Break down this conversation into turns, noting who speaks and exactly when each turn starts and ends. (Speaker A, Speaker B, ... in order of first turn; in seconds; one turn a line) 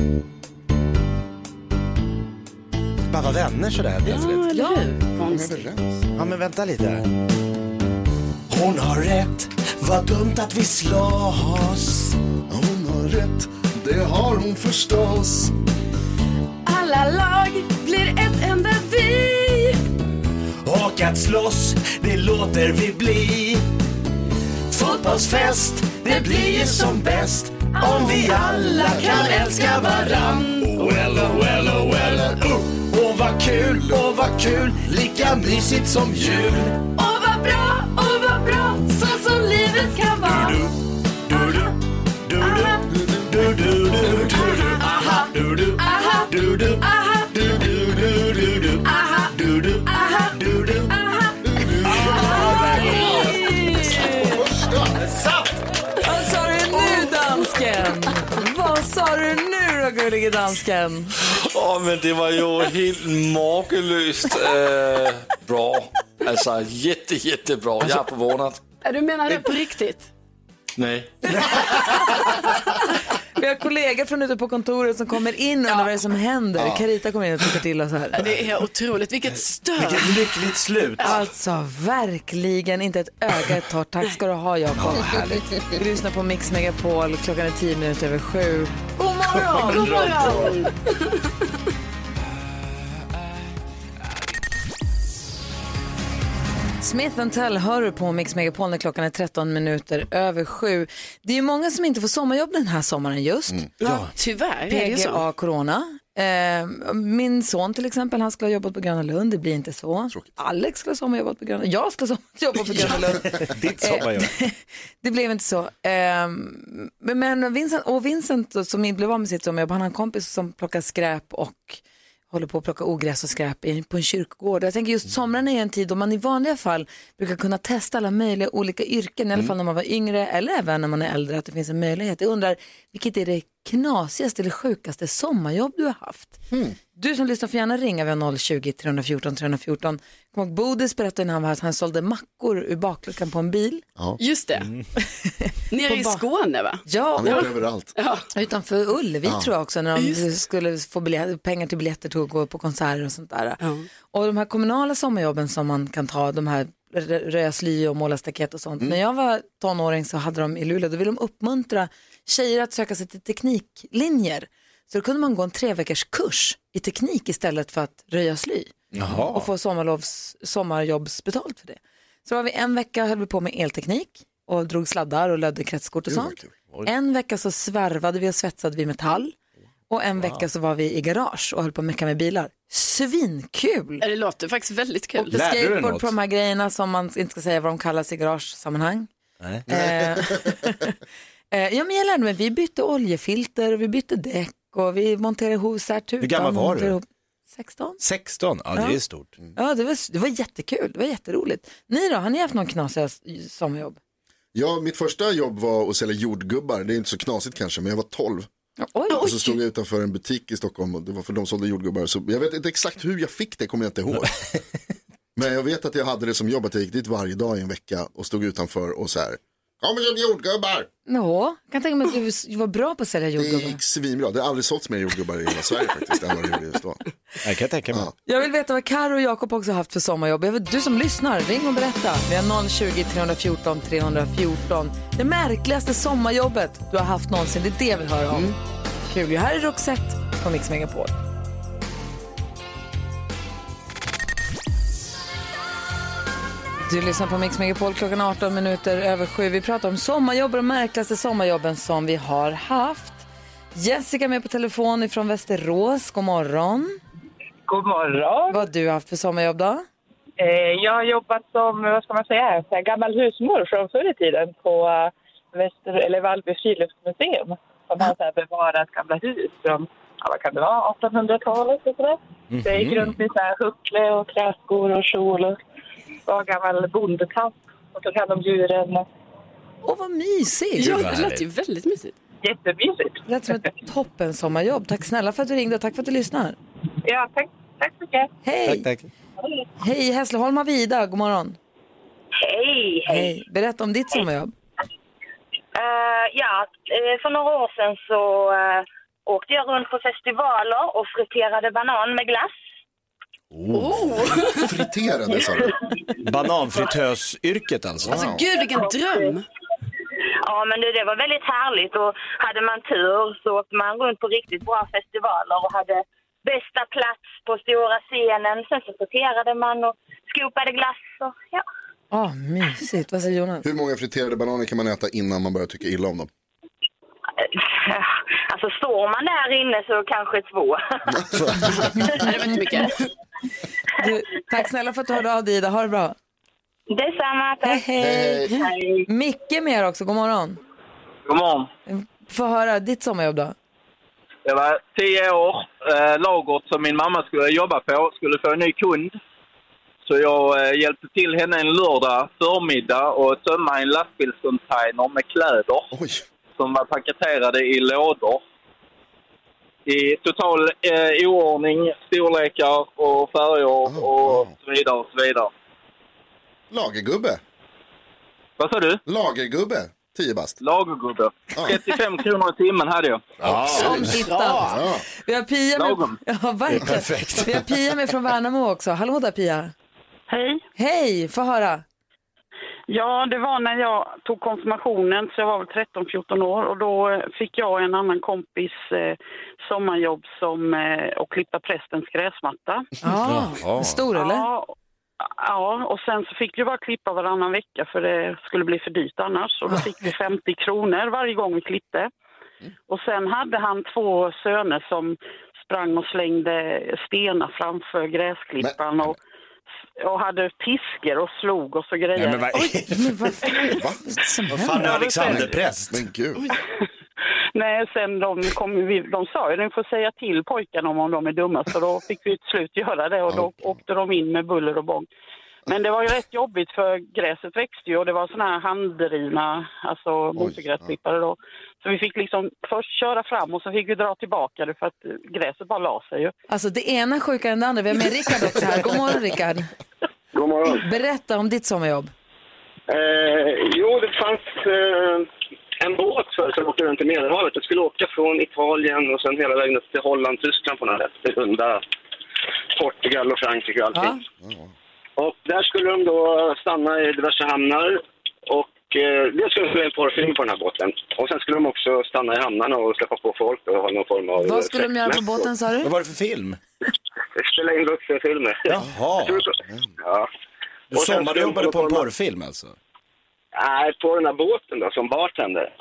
Speaker A: 3.0-4.4
Speaker B: 4.0-5.6
Speaker C: 4.5-4.8
Speaker D: 5.2-6.1
Speaker A: 6.2-7.1
Speaker A: 8.5-12.2
Speaker D: 12.5-15.5
Speaker B: 16.6-19.8
Speaker A: 20.6-23.6
Speaker A: 24.7-36.9
Speaker B: 26.1-27.0
Speaker B: 27.8-32.2
Speaker D: 28.7-29.0
Speaker D: 31.9-32.4
Speaker D: 33.5-34.2
Speaker B: 37.0-40.6
Speaker A: 40.2-50.9
Speaker B: 42.4-42.8
Speaker D: 42.9-43.3
Speaker B: 44.4-45.2
Speaker B: 46.9-47.2
Speaker B: 48.9-49.2
Speaker D: 51.4-52.7
Speaker A: 51.6-54.1
Speaker C: 52.1-54.3
Speaker D: 54.0-55.1
Speaker A: 55.0-55.5
Speaker C: 56.0-61.1
Speaker E: 61.2-68.6
Speaker B: 68.8-70.1
Speaker E: 70.8-71.1
Speaker A: 71.3-71.7
Speaker C: 71.7-72.3
Speaker C: 73.3-78.2
Speaker B: 78.1-80.4
Speaker A: 79.8-81.2
Speaker C: 81.0-89.0
Speaker A: 84.8-85.6
Speaker B: 89.0-91.2
Speaker A: 89.4-90.5
Speaker C: 89.5-90.1
Speaker C: 96.8-103.6
Speaker B: 103.8-105.2
Speaker A: 103.8-104.1
Speaker C: 104.7-136.4
Speaker A: 113.2-114.3
Speaker D: 136.5-136.8
Speaker C: 136.9-143.8
Speaker B: 144.2-144.7
Speaker C: 145.0-146.2
Speaker B: 145.7-148.2
Speaker C: 146.8-147.5
Speaker D: 147.2-147.9
Speaker C: 148.3-153.6
Speaker D: 149.2-149.5
Speaker B: 149.9-150.2
Speaker B: 153.6-153.8
Speaker C: 154.1-168.7
Speaker D: 168.9-169.3
Speaker A: 168.9-169.4
Speaker C: 169.3-179.3
Speaker D: 176.1-176.6
Speaker C: 179.9-184.0
Speaker B: 184.0-185.3
Speaker C: 185.2-189.1
Speaker A: 185.3-186.1
Speaker D: 189.7-190.6
Speaker C: 189.7-190.9
Speaker C: 191.5-198.0
Speaker A: 196.2-196.9
Speaker A: 198.0-199.3
Speaker C: 199.5-204.0
Speaker D: 204.5-208.5
Speaker C: 208.9-209.2
Speaker B: 209.1-209.5
Speaker D: 209.1-214.3
Speaker D: 215.3-220.9
Speaker C: 221.1-223.8
Speaker D: 223.4-227.0
Speaker A: 227.4-228.1
Speaker C: 228.2-238.6
Speaker C: 239.1-241.1
Speaker C: 246.8-257.0
Speaker F: 257.7-258.6
Speaker C: 258.5-259.9
Speaker F: 260.4-275.6
Speaker A: 272.5-273.2
Speaker F: 276.3-279.1
Speaker C: 279.8-281.0
Speaker B: 280.8-282.1
Speaker A: 280.8-281.4
Speaker F: 282.4-283.2
Speaker C: 283.3-286.6
Speaker F: 287.0-288.3
Speaker C: 288.4-288.9
Speaker A: 288.6-289.1
Speaker C: 289.8-291.6
Speaker G: 292.4-293.3
Speaker C: 293.1-294.5
Speaker G: 295.7-302.5
Speaker A: 303.5-304.3
Speaker B: 303.7-304.7
Speaker D: 304.4-305.8
Speaker A: 306.2-308.4
Speaker D: 308.0-308.4
Speaker B: 308.1-309.4
Speaker G: 308.7-309.3
Speaker G: 310.4-321.6
Speaker C: 322.1-323.6
Speaker D: 323.6-326.3
Speaker G: 327.4-331.3
Speaker D: 331.1-331.8
Speaker B: 331.7-333.0
Speaker G: 332.0-332.9
Speaker C: 334.0-336.1
Speaker G: 336.9-337.9
Speaker C: 337.6-340.6
Speaker D: 338.0-338.6
Speaker G: 338.5-339.1
Speaker H: 341.3-341.7
Speaker C: 341.9-343.5
Speaker H: 344.4-349.2
Speaker H: 350.1-355.9
Speaker D: 355.9-356.2
Speaker H: 356.6-358.4
Speaker H: 359.9-365.5
Speaker D: 363.9-364.5
Speaker D: 366.7-367.4
Speaker H: 368.6-369.0
Speaker D: 369.1-370.6
Speaker H: 370.6-373.3
Speaker D: 371.5-371.8
Speaker A: 373.4-374.1
Speaker D: 373.4-374.1
Speaker C: 373.7-379.7
Speaker B: 373.8-374.8
Speaker D: 374.6-375.0
Speaker H: 375.8-376.2
Speaker A: 376.7-377.7
Speaker I: 380.3-380.6
Speaker C: 380.8-381.8
Speaker I: 382.9-392.9
Speaker C: 393.0-394.5
Speaker A: 393.2-394.0
Speaker I: 394.1-402.1
Speaker I: 402.9-409.2
Speaker D: 408.6-409.1
Speaker I: 410.0-412.8
Speaker A: 412.1-413.5
Speaker C: 412.9-415.2
Speaker D: 413.5-416.4
Speaker A: 414.5-416.0
Speaker I: 414.7-415.4
Speaker I: 417.5-425.1
Speaker I: 425.7-436.3
Speaker D: 430.4-430.9
Speaker C: 436.5-439.7
Speaker J: 440.3-440.8
Speaker C: 440.7-442.1
Speaker J: 442.9-445.3
Speaker J: 445.8-451.8
Speaker J: 452.8-454.2
Speaker C: 453.9-454.2
Speaker D: 454.4-454.7
Speaker J: 455.2-465.4
Speaker C: 464.4-465.9
Speaker A: 465.8-466.6
Speaker J: 467.4-470.3
Speaker A: 468.7-469.4
Speaker J: 470.9-472.0
Speaker A: 470.9-472.8
Speaker J: 473.6-475.7